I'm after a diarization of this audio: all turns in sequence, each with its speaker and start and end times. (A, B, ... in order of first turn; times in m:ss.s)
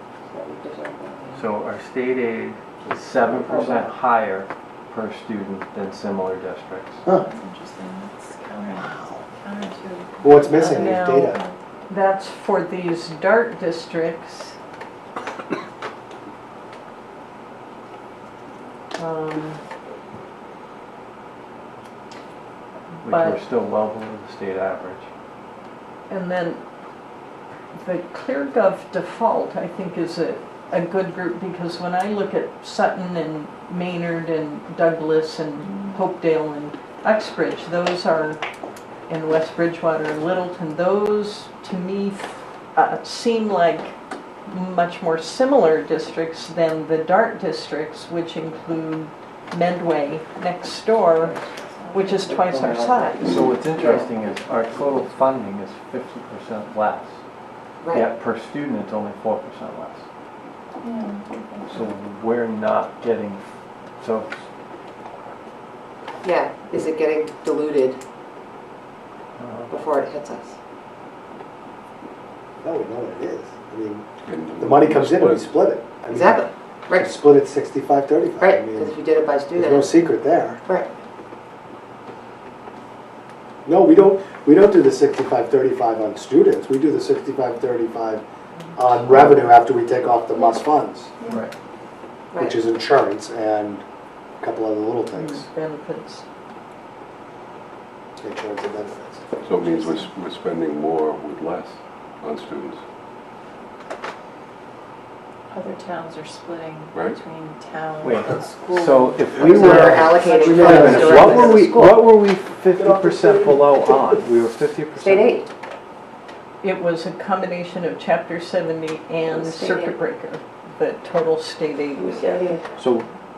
0:00.3-0:01.5 A
0:01.3-0:07.0 B
0:03.4-0:03.9 A
0:07.2-0:11.6 C
0:08.8-0:09.2 D
0:10.2-0:11.4 D
0:10.7-0:11.3 E
0:11.9-0:14.6 E
0:19.0-0:19.6 E
0:23.0-0:25.1 B
0:23.0-0:23.4 E
0:26.1-0:26.6 E
0:27.8-0:38.4 E
0:39.1-0:43.9 E
0:44.5-0:51.4 E
0:51.8-0:52.2 C
0:51.9-0:53.4 E
0:52.2-0:54.1 A
0:53.2-0:57.2 B
0:57.8-0:58.1 A
0:57.9-1:00.0 B
1:00.8-1:01.8 C
1:01.7-1:03.4 B
1:04.0-1:04.3 B
1:06.2-1:08.0 A
1:09.4-1:09.7 B
1:09.7-1:10.6 A
1:12.6-1:20.6 D
1:14.3-1:15.6 F
1:16.1-1:17.2 A
1:18.4-1:20.0 A
1:23.7-1:28.2 D
1:28.8-1:31.1 D
1:32.3-1:32.6 A
1:32.4-1:33.8 D
1:34.4-1:35.5 D
1:35.2-1:36.2 E
1:38.2-1:39.7 D
1:39.5-1:42.8 F
1:45.5-1:49.1 C
1:48.0-1:55.3 B
1:49.4-1:52.0 A
1:49.6-1:51.6 D
1:49.9-1:51.0 C
1:52.7-1:53.8 D
1:55.0-1:55.5 A
1:56.6-2:02.4 E
1:59.3-1:59.9 A
2:02.0-2:02.6 A
2:02.8-2:03.1 B